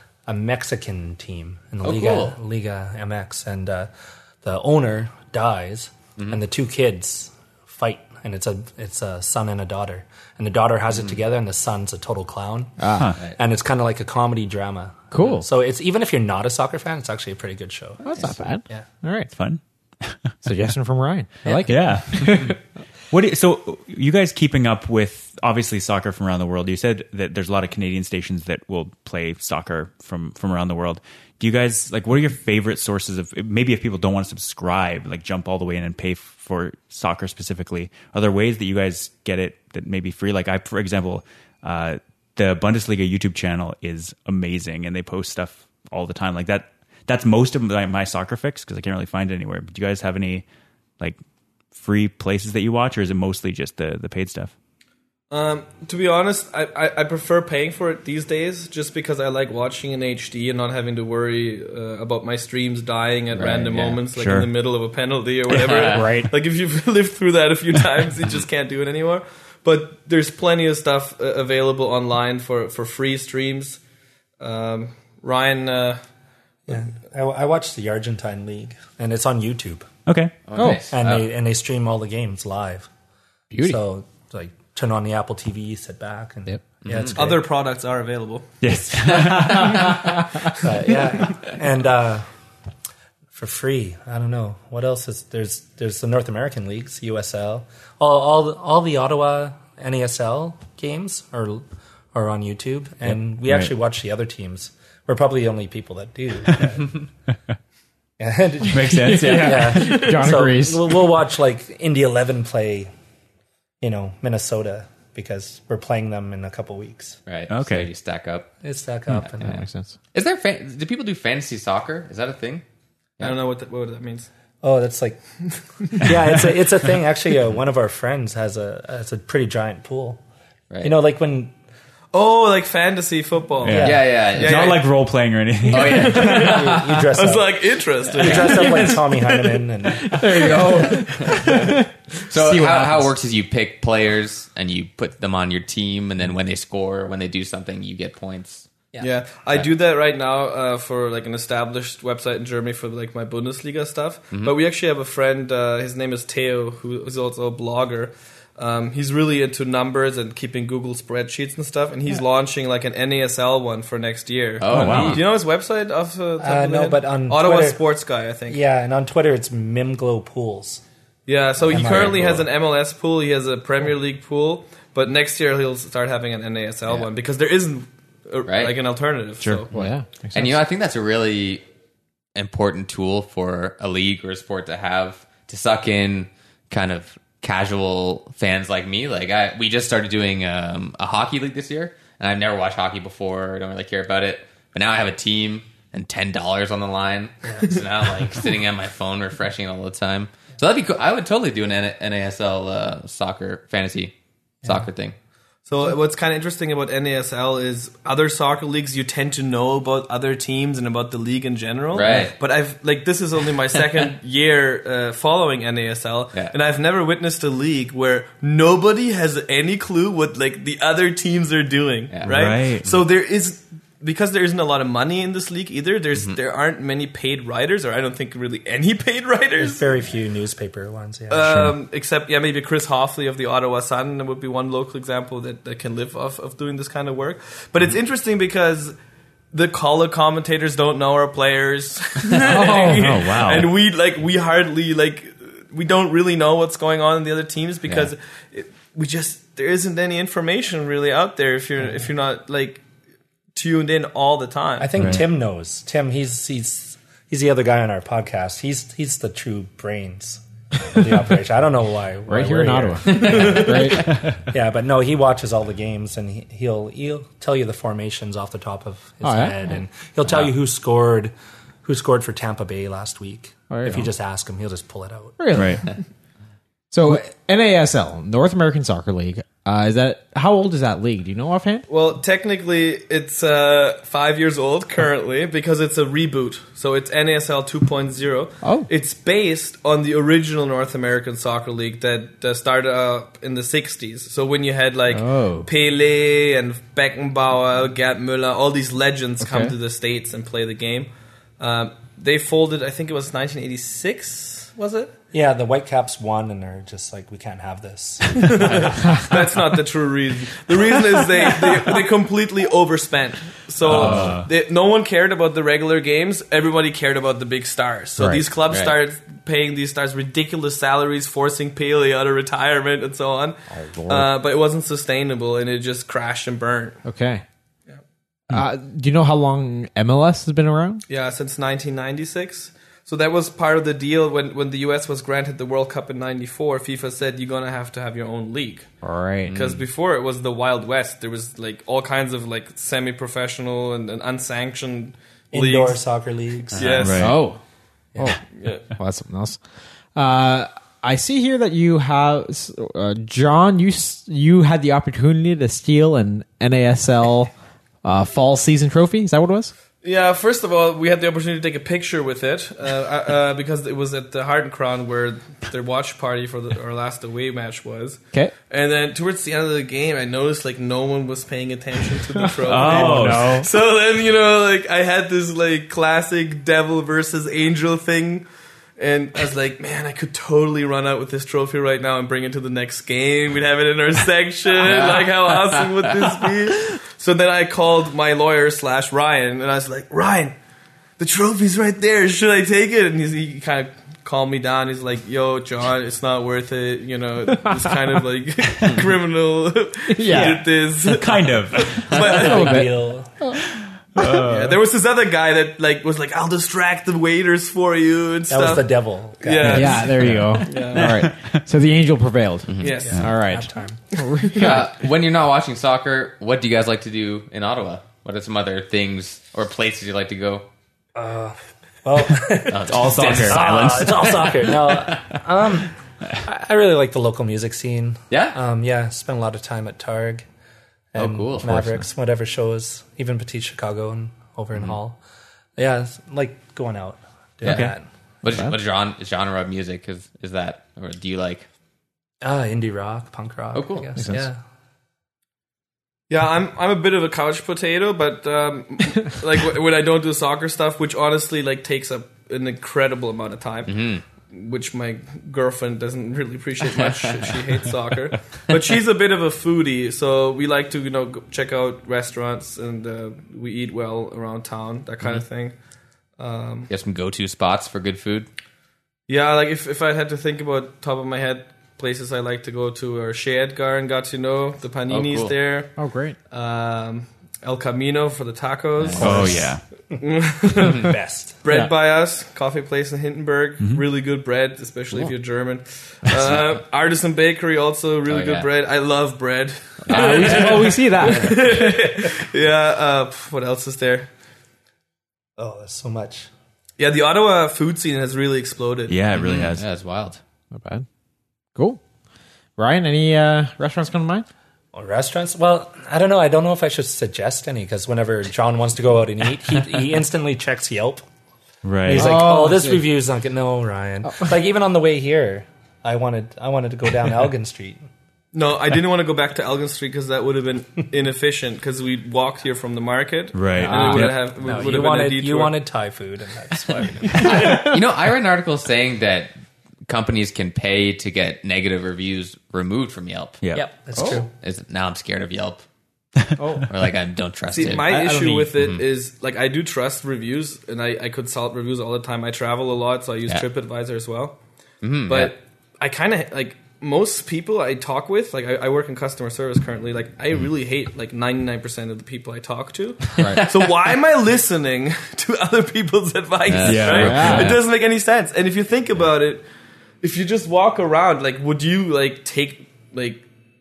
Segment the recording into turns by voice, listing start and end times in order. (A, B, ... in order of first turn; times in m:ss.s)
0:00.3-0:03.9 A
0:01.8-0:02.4 B
0:04.4-0:18.8 A
0:12.8-0:13.1 C
0:13.0-0:13.2 D
0:15.1-0:15.5 C
0:18.0-0:19.3 C
0:19.3-0:20.3 D
0:20.4-0:22.6 C
0:21.7-0:50.4 D
0:51.7-0:54.5 D
0:55.3-1:13.8 E
1:03.3-1:04.0 B
1:04.1-1:04.5 D
1:05.5-1:06.1 B
1:05.9-1:06.3 C
1:14.4-1:16.0 E
1:16.7-1:19.9 A
1:20.1-1:20.4 D
1:20.5-1:21.3 B
1:20.6-1:20.8 C
1:20.9-1:22.9 A
1:23.5-1:23.8 C
1:23.6-1:27.4 A
1:26.8-1:27.2 B
1:27.2-1:28.5 E
1:28.6-1:30.6 D
1:29.2-1:29.7 B
1:30.6-1:32.3 A
1:33.3-1:47.0 A
1:48.2-1:52.9 A
1:48.7-1:49.9 D
1:48.9-1:51.0 C
1:53.8-1:57.2 A
1:57.3-1:58.5 B
1:57.5-1:57.9 D
1:58.6-1:59.6 A
1:59.2-1:59.6 B
1:59.4-2:00.0 C
2:00.1-2:02.6 B
2:03.2-2:04.3 E
2:04.6-2:05.2 A
2:05.8-2:06.1 E
2:06.0-2:10.2 A
2:10.8-2:11.5 A
2:12.1-2:14.8 E
2:13.6-2:16.3 D
2:13.7-2:14.3 A
2:13.7-2:14.9 B
2:15.7-2:17.0 B
2:15.8-2:19.0 E
2:16.0-2:17.6 A
2:18.1-2:20.9 A
2:18.2-2:18.5 B
2:18.4-2:19.0 C
2:19.9-2:23.1 C
2:22.3-2:28.7 B
2:29.0-2:48.6 E
2:44.6-2:45.3 B
2:44.7-2:45.2 D
2:46.4-2:47.8 A
2:48.5-2:50.8 A
2:51.3-2:59.7 E
2:51.7-2:52.4 A
2:51.7-2:52.4 B
2:58.5-2:58.8 B
2:59.4-2:59.7 D
2:59.7-3:00.6 C
2:59.7-3:01.6 B
3:02.4-3:25.2 B
3:17.5-3:17.7 A
3:25.7-3:49.9 E
3:31.9-3:32.4 B
3:42.1-3:43.0 B
3:42.2-3:42.9 D
3:49.6-3:51.7 A
3:51.3-3:59.0 E
3:59.5-4:12.8 E
4:02.4-4:03.3 C
4:02.8-4:03.7 D
4:13.6-4:14.9 E
4:14.8-4:31.3 A
4:15.0-4:15.2 D
4:22.3-4:24.2 C
4:23.1-4:23.7 B
4:29.2-4:29.6 C
4:31.8-4:35.6 A
4:33.7-4:34.1 C
4:35.4-4:36.0 C
4:35.5-4:35.8 D
4:36.9-4:41.9 C
4:41.9-5:05.2 E
4:48.6-4:48.9 C
4:55.1-4:55.7 C
4:59.4-4:59.7 C
5:05.3-5:09.3 A
5:08.4-5:27.0 E
5:13.8-5:14.5 D
5:13.9-5:14.4 C
5:18.2-5:18.4 C
5:18.7-5:19.0 B
5:23.7-5:24.3 C
5:27.0-5:27.4 C
5:28.5-5:31.0 C
5:31.1-5:38.9 E
5:39.0-5:39.6 C
5:39.5-5:39.8 B
5:39.5-5:46.1 E
5:45.5-5:47.1 A
5:46.7-5:47.4 E
5:46.8-5:47.3 B
5:47.0-5:47.4 D
5:47.2-5:47.6 C
5:48.2-5:49.6 C
5:48.6-5:48.8 E
5:50.2-5:57.5 C
5:58.0-5:59.7 C
6:00.0-6:18.5 E
6:12.4-6:13.7 C
6:12.6-6:13.6 D
6:19.0-6:30.6 E
6:24.8-6:26.5 B
6:31.2-6:42.9 E
6:40.1-6:40.7 C
6:40.4-6:42.2 D
6:42.1-6:42.4 B
6:42.1-6:43.6 C
6:42.3-6:43.4 A
6:44.2-6:44.7 D
6:44.2-6:51.2 E
6:48.5-6:50.2 A
6:49.7-6:54.8 C
6:50.2-6:51.6 D
6:52.7-6:53.1 B
6:52.8-6:53.2 E
6:53.0-6:54.0 A
6:54.4-6:54.8 E
6:54.6-7:00.7 B
7:01.2-7:10.5 A
7:02.7-7:04.5 B
7:02.8-7:04.7 D
7:08.3-7:08.6 B
7:11.1-7:15.2 A
7:11.2-7:12.0 B
7:15.8-7:18.1 A
7:17.6-7:17.9 B
7:17.6-7:18.0 D
7:18.4-7:21.7 B
7:22.4-7:24.6 A
7:23.7-7:24.1 B
7:24.2-7:24.5 C
7:26.3-7:45.7 E
7:33.9-7:34.2 B
7:37.0-7:37.5 B
7:46.4-7:46.9 E
7:46.9-7:48.5 B
7:49.3-7:55.9 E
7:55.1-7:55.6 B
7:56.0-7:56.4 C
7:56.5-7:59.7 E
7:59.0-7:59.7 B
7:59.2-7:59.8 D
8:00.2-8:14.3 E
8:00.8-8:01.6 A
8:00.8-8:01.1 B
8:01.7-8:01.9 C
8:08.3-8:08.7 B
8:10.1-8:11.5 B
8:10.1-8:12.1 C
8:15.6-8:16.5 A
8:17.0-8:19.2 E
8:19.1-8:19.9 D
8:19.3-8:20.4 B
8:20.7-8:21.1 C
8:21.8-8:22.0 C
8:22.8-8:24.5 C
8:24.9-8:31.2 A
8:31.8-8:32.4 D
8:32.1-8:38.1 A
8:32.1-8:33.1 C
8:38.5-8:45.8 E
8:43.5-8:44.4 D
8:43.8-8:44.3 C
8:44.5-8:47.8 A
8:47.2-8:48.0 C
8:47.4-8:49.5 B
8:50.1-8:53.6 B
8:53.6-8:53.9 D
8:53.7-8:54.5 A
8:54.2-8:54.4 C
8:54.2-8:55.8 B
8:56.6-8:56.9 C
8:56.9-8:59.0 B
8:57.7-9:04.6 E
9:05.0-9:05.5 B
9:05.3-9:19.6 E
9:13.4-9:13.6 C
9:13.4-9:13.7 B
9:16.7-9:17.8 B
9:16.8-9:17.8 D
9:17.2-9:17.8 C
9:20.2-9:23.4 E